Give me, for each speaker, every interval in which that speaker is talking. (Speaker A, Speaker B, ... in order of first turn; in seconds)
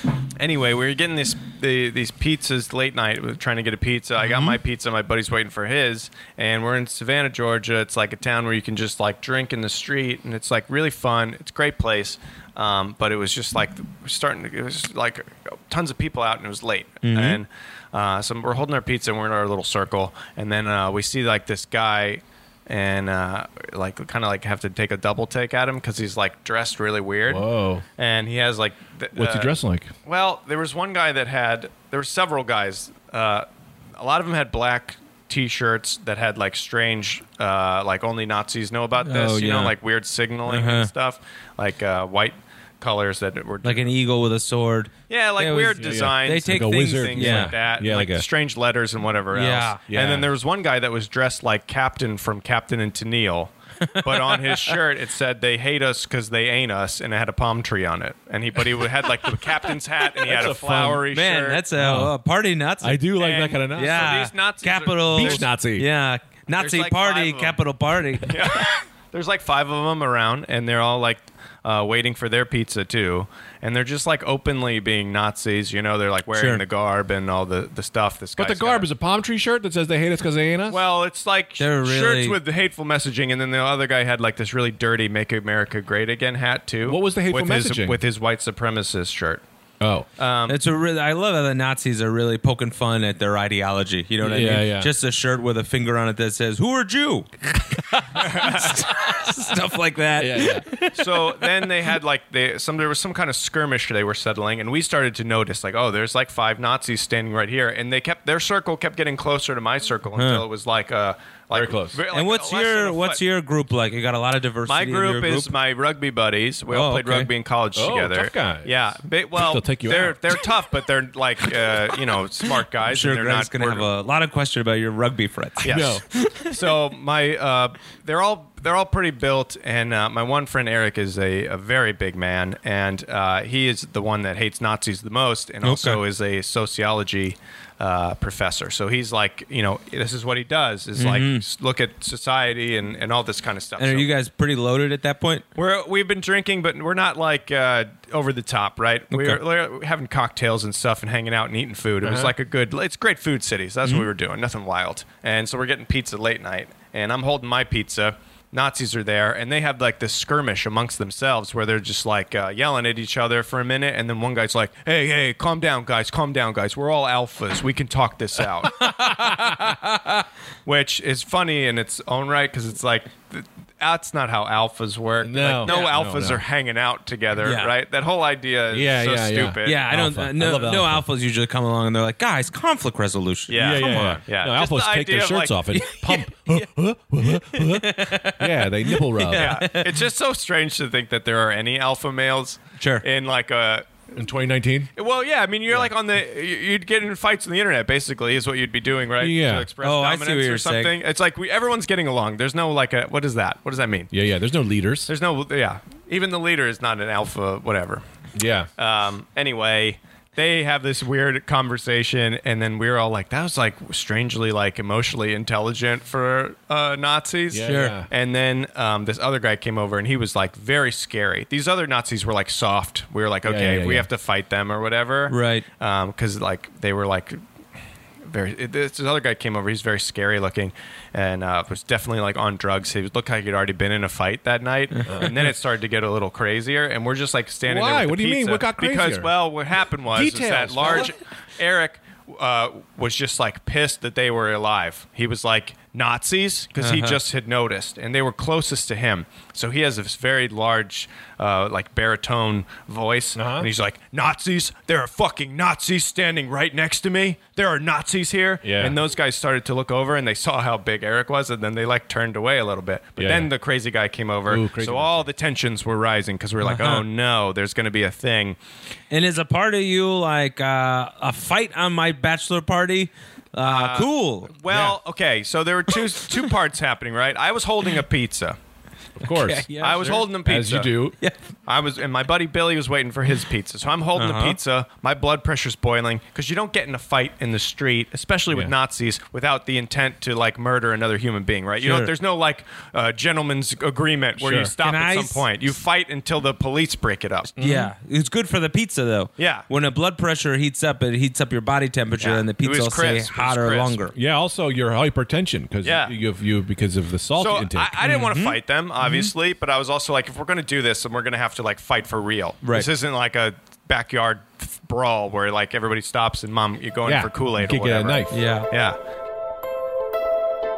Speaker A: 0.4-27.4, 28.0-29.5, 30.1-43.9, 45.1-61.6, 63.2-65.5, 66.6-67.6, 68.2-78.9, 80.7-89.4, 90.2-90.6, 98.2-98.9, 100.9-113.2, 114.7-123.9, 125.6-144.1, 145.6-168.9, 170.7-179.8, 183.5-185.6, 189.3-193.9, 195.0-204.1, 205.1-208.0, 208.8-227.4, 228.3-268.6, 273.7-278.6, 279.8-280.9, 281.7-297.5, 299.4-299.7, 302.2-304.0, 305.8-306.1, 307.4-319.0
Speaker B: 17.0-17.4, 39.0-39.8, 40.5-40.9, 43.6-47.6, 49.3-49.8, 53.9-54.7, 61.1-63.1, 63.7-68.7, 76.3-76.6, 81.6-82.4, 90.5-101.6, 110.2-110.5, 112.1-115.5, 116.7-117.3, 122.9-125.7, 135.6-136.0, 141.0-141.4, 143.8-145.5, 149.1-149.4, 168.6-170.2, 175.6-175.9, 177.4-177.7, 179.6-184.2, 185.8-186.7, 187.2-190.1, 192.8-193.1, 199.8-200.9, 217.7-218.0, 225.3-225.7, 246.8-247.2, 266.6-267.1, 269.1-274.5, 279.4-280.3, 284.1-284.6, 294.8-295.4, 297.6-304.1, 308.0-309.3, 312.6-312.9, 318.3-318.7
Speaker C: 27.2-27.9, 29.1-29.9, 45.8-48.3, 49.9-50.3, 60.2-61.1, 61.8-62.1, 62.8-64.3, 65.0-65.9, 78.4-80.8, 86.8-88.0, 89.8-90.1, 94.2-94.9, 97.9-98.2, 100.2-100.7, 111.5-112.0, 117.8-120.4, 125.7-126.0, 152.0-152.3, 175.2-176.4, 178.7-181.1, 183.6-189.6, 194.1-194.9, 199.2-199.7, 204.1-205.1, 208.3-208.7, 217.5-218.1, 223.4-224.1, 235.1-235.6, 237.6-239.3, 240.1-241.1, 253.3-253.7, 258.6-259.0, 263.2-263.5, 264.5-265.3, 274.7-275.0, 279.2-281.2, 291.8-292.1, 294.4-294.7, 297.6-297.9, 304.1-308.1, 317.0-318.4